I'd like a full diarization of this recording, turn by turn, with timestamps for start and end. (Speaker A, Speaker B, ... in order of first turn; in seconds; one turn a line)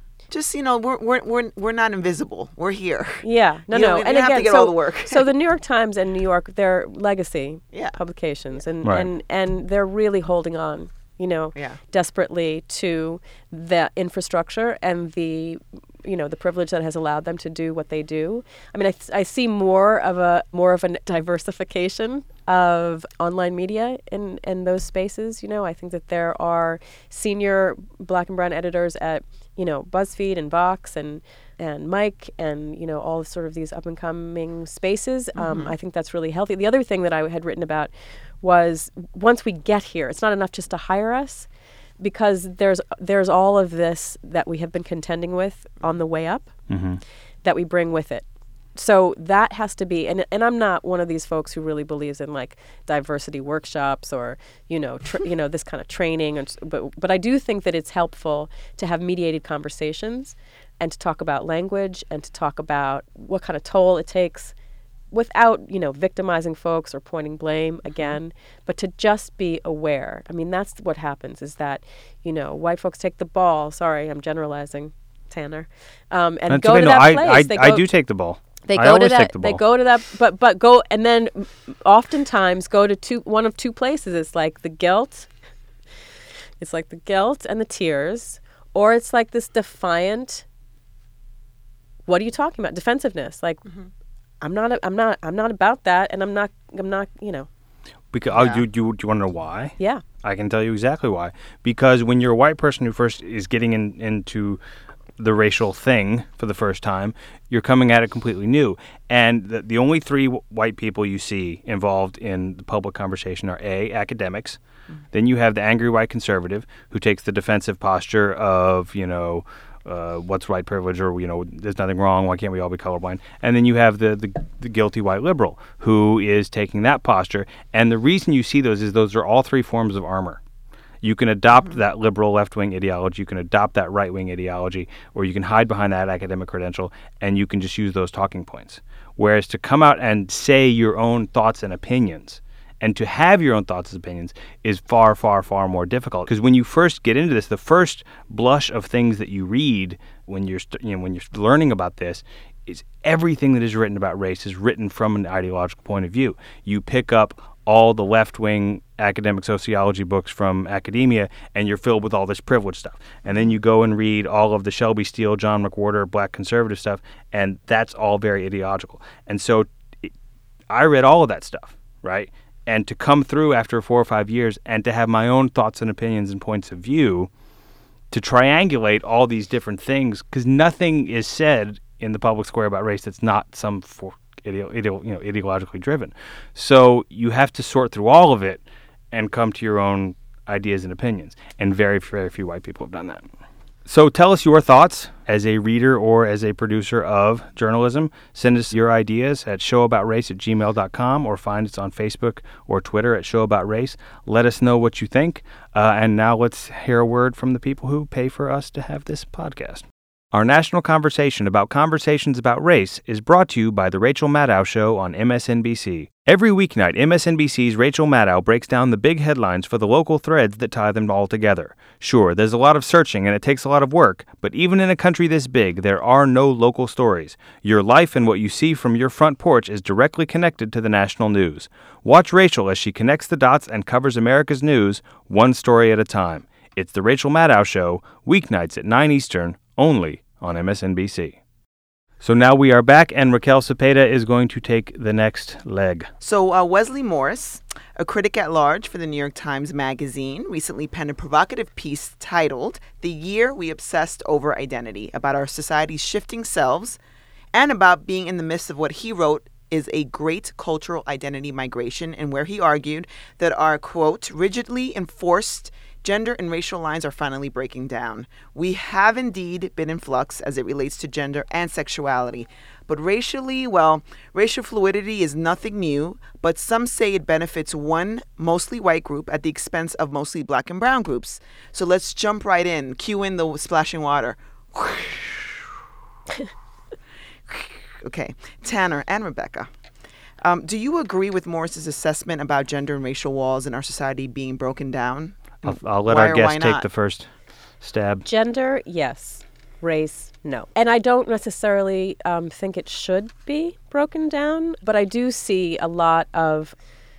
Speaker A: 0.3-5.2
Speaker B: 3.2-37.9
Speaker C: 8.8-9.1
Speaker A: 35.3-35.7
Speaker B: 38.4-41.5
Speaker B: 42.0-46.5
Speaker C: 46.7-47.0
Speaker B: 47.4-48.2
Speaker B: 48.8-64.5
Speaker B: 65.1-77.8
Speaker C: 76.5-79.6
Speaker B: 78.7-85.3
Speaker B: 86.6-90.4
Speaker B: 92.1-93.6
Speaker B: 94.4-97.5
Speaker C: 98.1-104.6
Speaker A: 98.2-98.6
Speaker C: 105.2-114.6
Speaker C: 115.1-130.4
Speaker C: 131.0-170.1
Speaker A: 163.2-163.5
Speaker C: 170.7-177.3
Speaker C: 178.1-193.2
Speaker C: 193.9-241.4
Speaker C: 242.2-246.1
Speaker A: 246.2-257.0
Speaker A: 257.5-285.7
Speaker A: 287.5-289.7
Speaker A: 290.4-296.8
Speaker C: 295.6-297.3
Speaker C: 297.8-298.2
Speaker B: 298.2-306.7